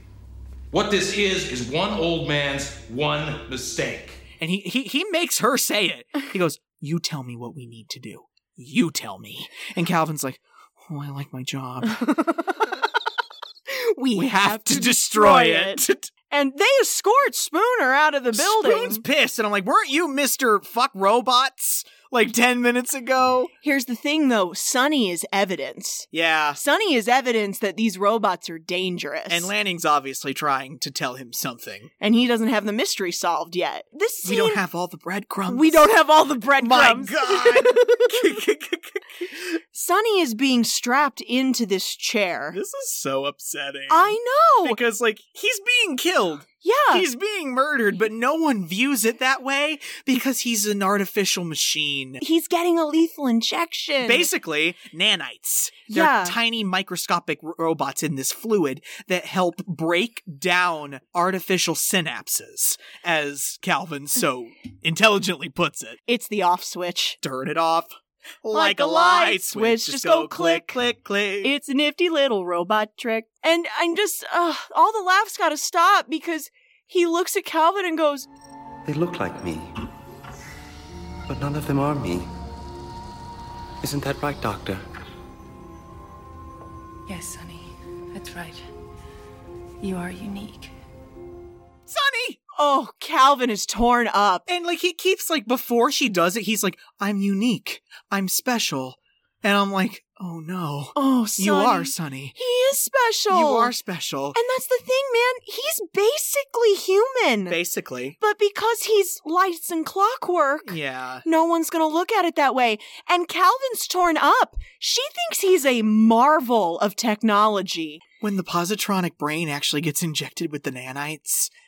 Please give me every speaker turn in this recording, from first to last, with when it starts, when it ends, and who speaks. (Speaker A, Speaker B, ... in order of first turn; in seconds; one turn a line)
Speaker A: 0.7-4.2
Speaker B: 4.4-12.3
Speaker C: 13.7-19.0
Speaker B: 14.2-16.1
Speaker B: 18.3-23.5
Speaker C: 23.6-26.1
Speaker B: 26.1-26.6
Speaker C: 26.6-29.5
Speaker B: 29.3-31.9
Speaker C: 32.0-34.6
Speaker B: 34.2-35.9
Speaker C: 35.5-38.1
Speaker B: 36.6-39.0
Speaker C: 39.7-42.6
Speaker B: 42.5-52.2
Speaker C: 43.9-44.8
Speaker C: 46.6-47.0
Speaker C: 52.2-54.3
Speaker B: 54.0-66.0
Speaker C: 55.9-56.4
Speaker C: 66.1-67.2
Speaker B: 67.2-71.5
Speaker C: 68.5-70.8
Speaker C: 71.4-78.3
Speaker D: 78.8-79.7
Speaker D: 81.3-82.3
Speaker D: 83.8-84.8
Speaker E: 87.1-88.6
Speaker E: 89.8-90.7
Speaker B: 91.9-92.4
Speaker C: 92.6-94.5
Speaker B: 94.5-102.4
Speaker C: 101.0-103.7
Speaker B: 103.3-104.4
Speaker C: 104.3-107.6
Speaker B: 107.5-108.2
Speaker C: 108.2-118.0
Speaker B: 110.7-111.2
Speaker B: 118.2-121.5